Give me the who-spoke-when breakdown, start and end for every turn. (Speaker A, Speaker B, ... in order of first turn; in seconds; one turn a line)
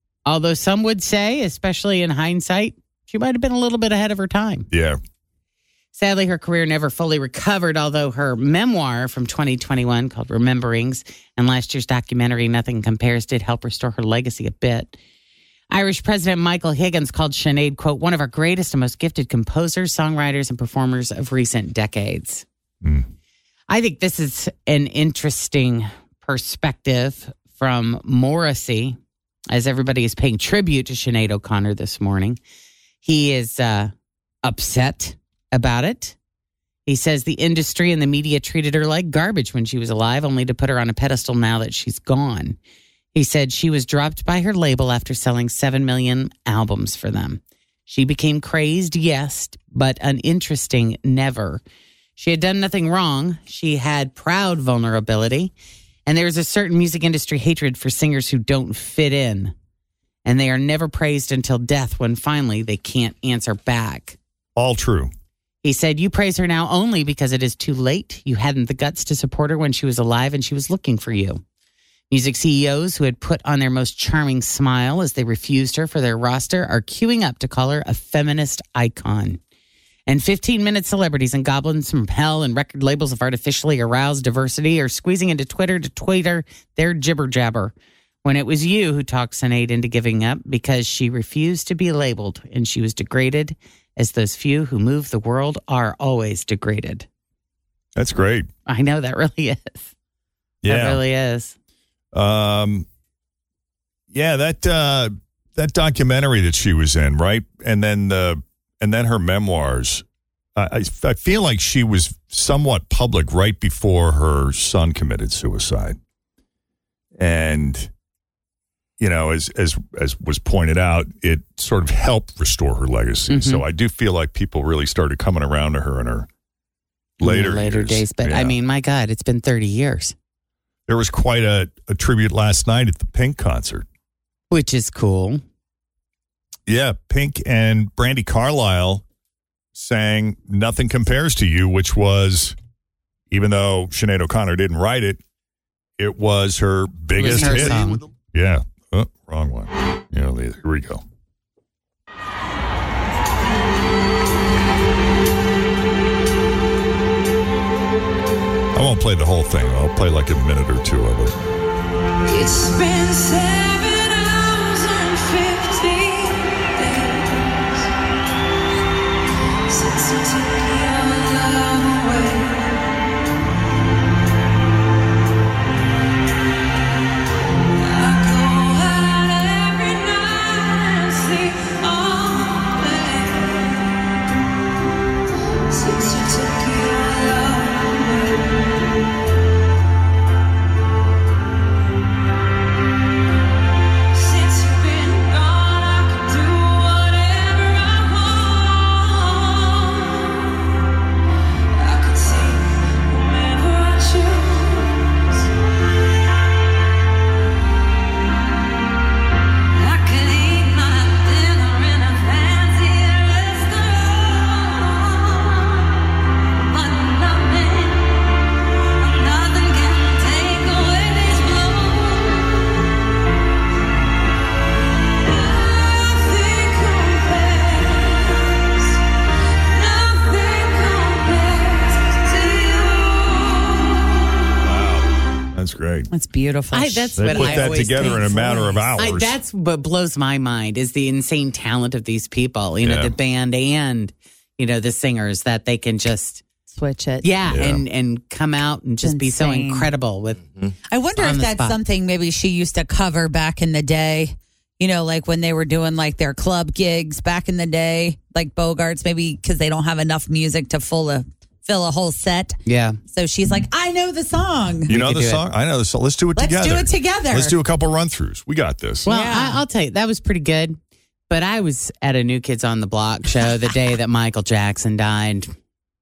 Speaker A: 0.2-4.7
Speaker B: 4.7-5.0
Speaker A: 5.9-15.0
Speaker A: 15.7-22.4
Speaker A: 23.7-29.0
Speaker A: 29.5-32.4
Speaker A: 33.0-33.9
Speaker A: 34.4-36.1
Speaker A: 36.9-42.6
Speaker A: 43.1-51.6
Speaker A: 52.2-55.5
Speaker A: 56.0-59.5
Speaker A: 60.2-64.2
Speaker B: 64.5-65.1
Speaker A: 65.6-71.4
Speaker A: 72.1-79.4
Speaker A: 80.1-87.7
Speaker A: 88.2-97.0
Speaker B: 98.0-98.5
Speaker A: 98.7-99.9
Speaker B: 100.6-101.0
Speaker A: 100.7-101.5
Speaker B: 102.1-102.9
Speaker B: 104.1-110.0
Speaker B: 110.6-116.0
Speaker B: 117.2-117.9
Speaker B: 119.0-126.3
Speaker A: 123.3-123.6
Speaker A: 127.2-130.1
Speaker B: 127.2-128.5
Speaker B: 130.9-133.8
Speaker A: 134.5-135.4
Speaker B: 136.7-139.0
Speaker B: 139.7-142.6
Speaker B: 143.3-145.2
Speaker B: 146.0-151.0
Speaker A: 147.1-148.0
Speaker B: 158.7-161.3
Speaker C: 162.3-167.9
Speaker C: 169.7-172.9
Speaker C: 177.8-183.9
Speaker C: 185.7-188.5
Speaker C: 194.1-200.5
Speaker C: 201.7-205.3
Speaker C: 209.7-215.7
Speaker C: 216.7-218.4
Speaker C: 219.0-222.6
Speaker C: 225.3-228.7
Speaker C: 229.6-233.6
Speaker B: 234.6-236.1
Speaker D: 236.1-238.9
Speaker A: 236.7-238.4
Speaker B: 237.2-239.4
Speaker A: 238.9-246.4
Speaker B: 242.8-243.1
Speaker D: 246.7-247.3
Speaker A: 247.2-251.8
Speaker B: 247.5-247.8
Speaker D: 249.0-249.9
Speaker D: 250.9-262.6
Speaker A: 262.6-263.0
Speaker D: 263.1-264.9
Speaker A: 264.9-265.4
Speaker B: 264.9-269.0
Speaker D: 266.4-267.5
Speaker A: 269.1-270.8
Speaker D: 269.1-269.6
Speaker A: 271.3-275.5